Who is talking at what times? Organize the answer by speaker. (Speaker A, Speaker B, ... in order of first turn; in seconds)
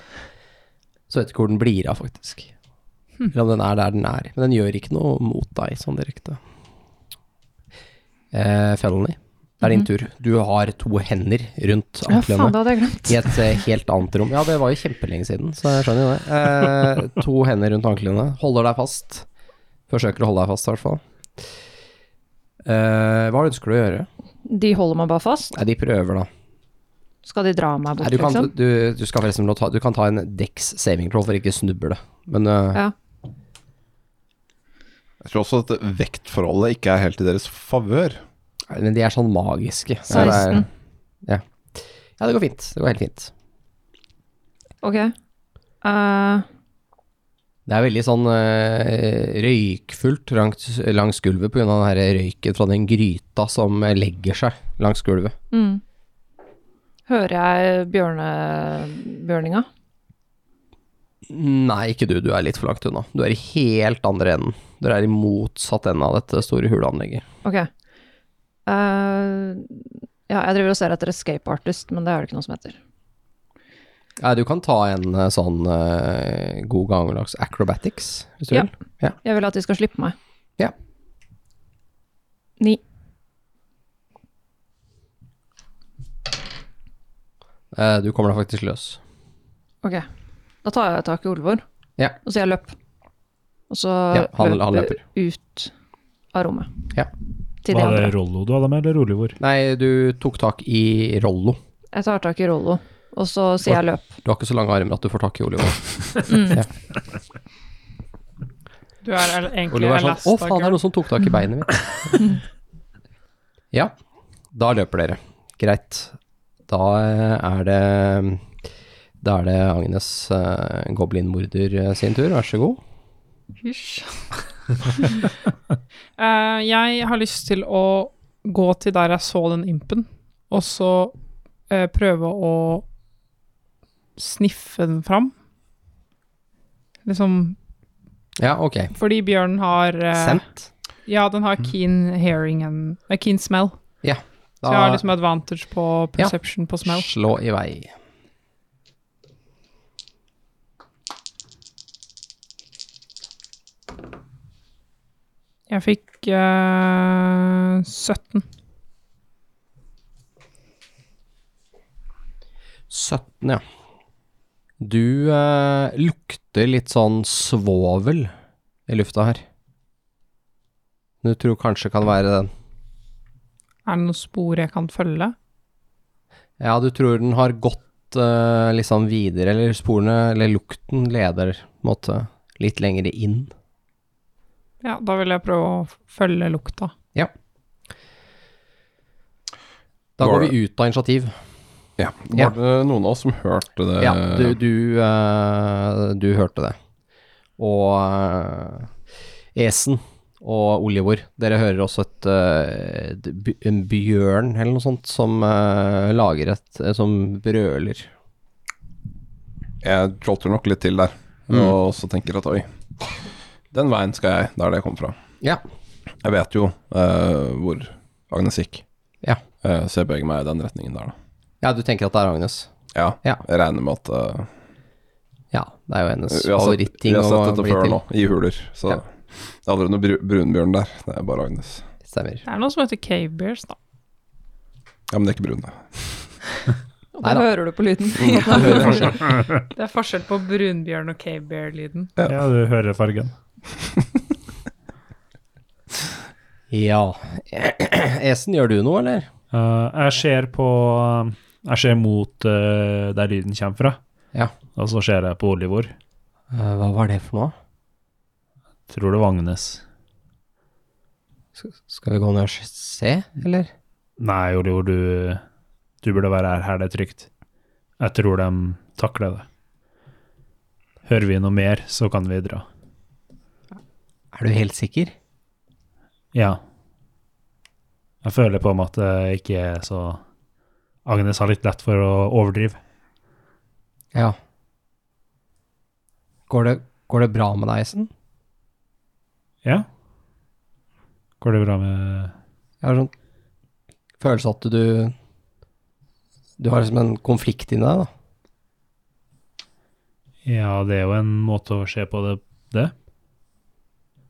Speaker A: 1.1-2.5, 3.3-6.4, 8.3-19.2, 19.9-21.0, 22.6-24.1, 25.5-26.3, 28.0-32.8, 38.7-40.7, 41.2-43.3, 47.6-55.3, 61.3-67.2, 74.2-79.2, 87.7-89.0, 94.1-95.0, 99.4-101.6, 103.7-106.7, 109.7-112.4, 114.5-116.1, 116.7-118.4, 119.2-122.8, 138.4-138.9, 140.1-140.7, 144.0-145.0, 146.8-147.9, 162.9-163.6, 164.8-168.3, 168.9-169.4, 171.2-172.5, 176.6-183.5, 190.2-191.3, 194.0-196.8, 197.6-198.9, 199.5-208.1, 211.5-211.7, 221.6-222.7, 225.5-228.0, 232.0-232.4, 246.7-249.3, 256.5-257.5, 261.6-263.7, 274.3-275.1, 286.5-288.1, 292.8-293.1, 294.2-295.1, 296.6-298.1
Speaker B: 12.1-13.6, 24.4-25.6, 27.2-28.5, 40.1-40.6, 44.8-45.1, 45.8-46.5, 55.5-55.8, 57.1-59.7, 67.4-67.7, 68.7-72.8, 79.2-80.1, 90.6-91.6, 92.2-92.7, 93.7-95.7, 96.3-96.7, 97.6-98.1, 101.9-104.1, 106.3-106.6, 237.1-239.3
Speaker C: 35.2-38.2, 40.1-40.4, 190.2-190.5, 192.0-194.5, 209.8-212.7, 213.7-215.2, 216.2-218.8, 219.6-221.1, 222.9-224.5, 226.3-231.9, 235.1-236.2, 238.3-239.0
Speaker D: 97.7-99.4, 242.3-243.3, 249.5-254.0, 254.8-255.9, 258.9-259.8, 264.2-265.4, 266.0-267.3, 268.0-269.4, 271.0-272.6, 276.3-276.6, 278.2-280.2, 281.0-282.8, 291.4-292.3, 300.4-302.9
Speaker E: 109.0-110.8, 123.6-124.2, 126.2-131.1, 131.7-132.9, 134.2-135.3, 137.1-137.6, 138.9-140.4, 141.1-143.8, 144.7-147.1, 155.7-158.4, 173.8-175.3, 184.8-186.9, 232.4-233.8, 238.7-238.9, 239.7-242.1